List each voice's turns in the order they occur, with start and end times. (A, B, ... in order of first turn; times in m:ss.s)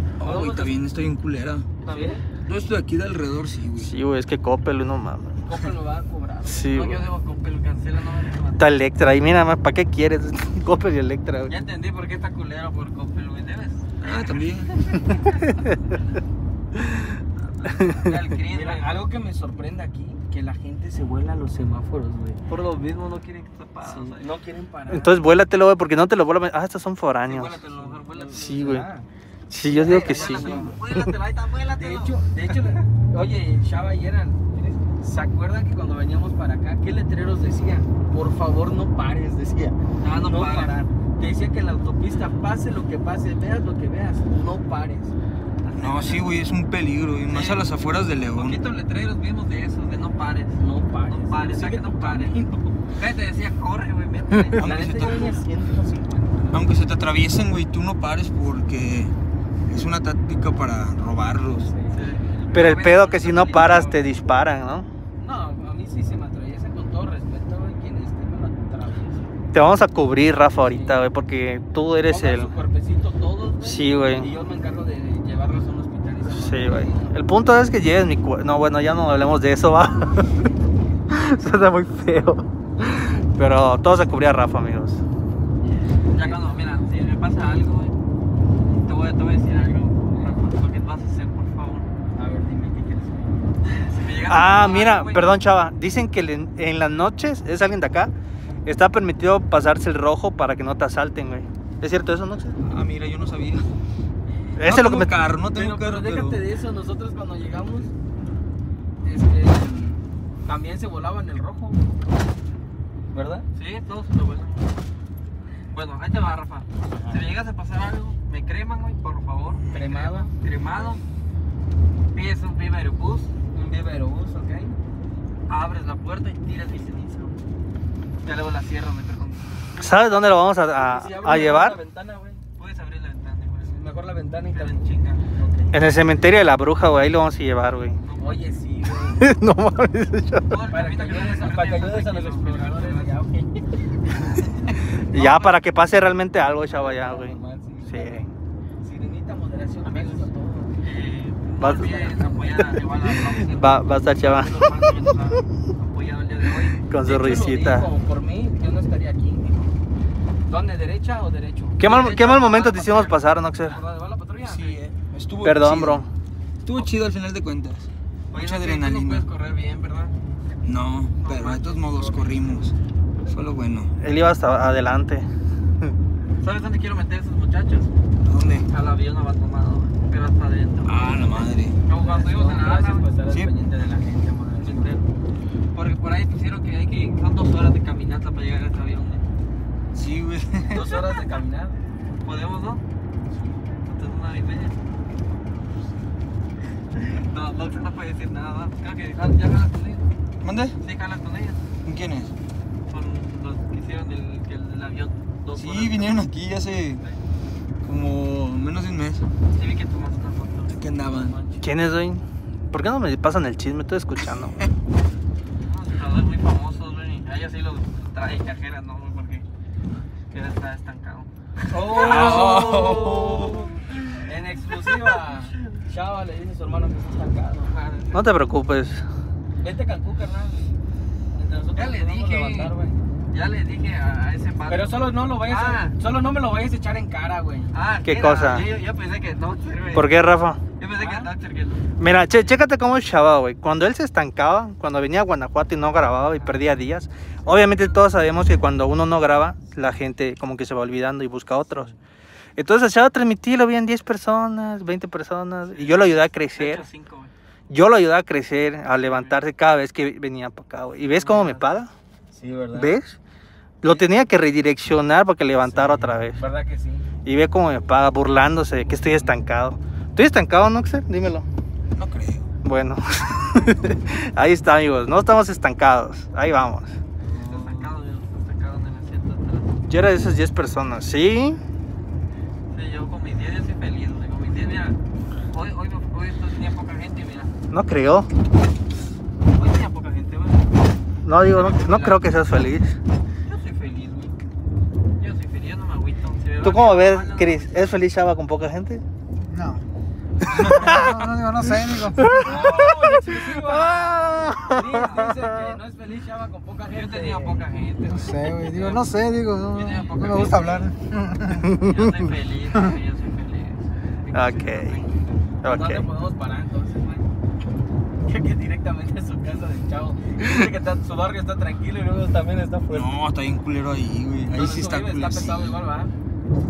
0:00.2-0:01.7 A
0:00.2-0:00.7 B
0:01.8-0:02.2 B
0:01.8-0:02.2 C
0:02.4-0:03.9 A
0:03.8-0:05.4 D
0:05.4-0:06.8 B
0:06.5-0:07.1 D
0:06.7-0:08.6 C
0:08.6-0:11.5 D
0:11.5-0:15.6 C
0:14.0-0:14.9 A
0:16.8-0:17.2 D
0:17.4-0:19.0 C
0:17.7-0:22.9 B
0:17.7-0:18.1 D
0:22.5-0:24.3 C
0:23.8-0:25.2 B
0:24.9-0:27.6 D
0:27.3-0:28.7 C
0:27.6-0:29.1 B
0:28.3-0:28.9 D
0:29.5-0:31.1 D
0:29.6-0:45.2 B
0:29.7-0:32.8 C
0:40.0-0:40.8 C
0:45.7-0:46.2 B
0:45.8-0:48.6 A
0:45.8-0:46.1 C
0:47.3-0:47.7 C
0:48.3-0:55.2 C
0:50.6-0:52.9 B
0:54.4-0:56.6 B
0:54.6-0:55.5 A
0:56.5-0:59.2 A
0:59.7-1:01.7 A
1:01.5-1:02.0 B
1:01.9-1:04.1 C
1:02.5-1:04.9 D
1:05.2-1:09.3 B
1:09.5-1:12.6 D
1:10.5-1:11.1 B
1:12.1-1:17.2 B
1:13.6-1:14.3 D
1:16.3-1:20.5 D
1:21.1-1:25.0 D
1:25.7-1:26.6 B
1:26.1-1:28.0 C
1:28.8-1:31.9 C
1:32.1-1:33.8 B
1:33.9-1:35.4 C
1:34.3-1:38.1 D
1:38.6-1:42.6 D
1:42.6-1:43.7 A
1:44.6-1:45.1 D
1:44.6-1:46.5 A
1:45.5-1:47.9 B
1:49.0-1:51.8 B
1:53.1-1:53.5 B
1:53.6-1:54.7 C
1:55.7-2:01.0 C
1:57.0-1:57.2 B
1:59.7-2:01.0 B
2:02.1-2:03.3 C
2:03.5-2:04.8 B
2:05.5-2:07.4 C
2:08.2-2:09.7 C
2:09.8-2:11.8 D
2:10.7-2:12.4 B
2:12.6-2:15.2 C
2:13.7-2:15.8 B
2:15.7-2:18.0 D
2:18.0-2:18.5 C
2:18.2-2:19.3 B
2:19.0-2:20.6 D
2:20.5-2:23.2 C
2:20.7-2:25.4 B
2:24.6-2:25.6 C
2:25.0-2:28.3 D
2:26.6-2:28.3 B
2:28.8-2:30.8 B
2:29.8-2:36.9 C
2:31.6-2:32.3 D
2:33.0-2:34.7 D
2:34.2-2:35.4 B
2:36.9-2:37.9 D
2:37.0-2:39.8 B
2:40.5-2:44.8 B
2:41.8-2:43.8 D
2:44.4-2:46.0 A
2:45.4-2:46.1 D
2:46.6-2:49.3 A
2:48.3-2:50.2 C
2:50.6-2:52.8 A
2:51.2-2:52.7 C
2:53.3-2:54.0 A
2:54.0-2:55.3 D
2:56.4-2:57.9 C
2:58.2-2:58.7 A
2:58.7-3:03.1 C
3:00.8-3:01.8 A
3:01.9-3:05.0 B
3:04.6-3:05.0 C
3:05.7-3:09.3 C
3:09.9-3:11.0 A
3:10.7-3:11.8 B
3:12.2-3:12.8 C
3:13.8-3:14.8 C
3:17.0-3:20.1 C
3:20.4-3:20.8 A
3:20.8-3:21.6 C
3:21.8-3:22.3 A
3:22.9-3:26.2 C
3:25.5-3:27.0 A
3:27.8-3:29.3 A
3:29.5-3:30.7 C
3:30.7-3:31.4 A
3:31.3-3:31.6 C
3:31.6-3:34.6 D
3:35.6-3:39.5 C
3:40.3-3:45.3 C
3:41.7-3:43.6 B
3:41.8-3:43.8 A
3:44.2-3:47.8 B
3:47.7-3:48.3 C
3:48.1-3:49.0 D
3:49.6-3:53.0 B
3:51.8-3:52.8 C
3:53.3-3:56.0 C
3:54.7-3:58.9 B
3:57.7-4:00.2 C
3:58.0-3:58.7 D
3:59.6-4:00.1 B
3:59.9-4:00.6 D
4:00.8-4:01.9 C
4:00.9-4:01.3 B
4:02.0-4:11.9 D
4:12.6-4:16.9 D
4:15.7-4:17.3 C
4:17.7-4:21.9 D
4:19.0-4:19.4 C
4:21.1-4:21.7 C
4:22.3-4:23.0 B
4:22.7-4:23.2 D
4:23.8-4:26.4 D
4:25.7-4:27.1 B
4:27.2-4:31.5 D
4:28.8-4:29.4 B
4:32.0-4:32.5 A
4:32.6-4:37.0 D
4:37.3-4:37.9 A
4:37.3-4:39.8 C
4:39.9-4:41.6 D
4:42.7-4:45.0 C
4:45.5-4:47.5 C
4:47.7-4:48.3 D
4:49.5-4:50.8 C
4:51.2-4:53.0 D
4:51.4-4:52.4 C
4:53.5-4:54.4 C
4:55.2-4:57.9 C
4:56.6-4:59.0 D
4:59.5-4:59.8 E
5:00.4-5:05.8 D
5:00.6-5:02.3 E
5:00.8-5:01.1 C
5:02.3-5:09.0 B
5:02.4-5:05.2 C
5:06.9-5:09.0 C
5:08.0-5:11.7 E
5:08.8-5:10.9 D
5:09.7-5:11.0 C
5:11.4-5:12.3 D
5:11.7-5:15.4 C
5:14.3-5:15.0 D
5:15.6-5:16.1 D
5:15.6-5:17.3 B
5:18.2-5:23.2 B
5:22.9-5:25.8 A
5:24.5-5:26.1 B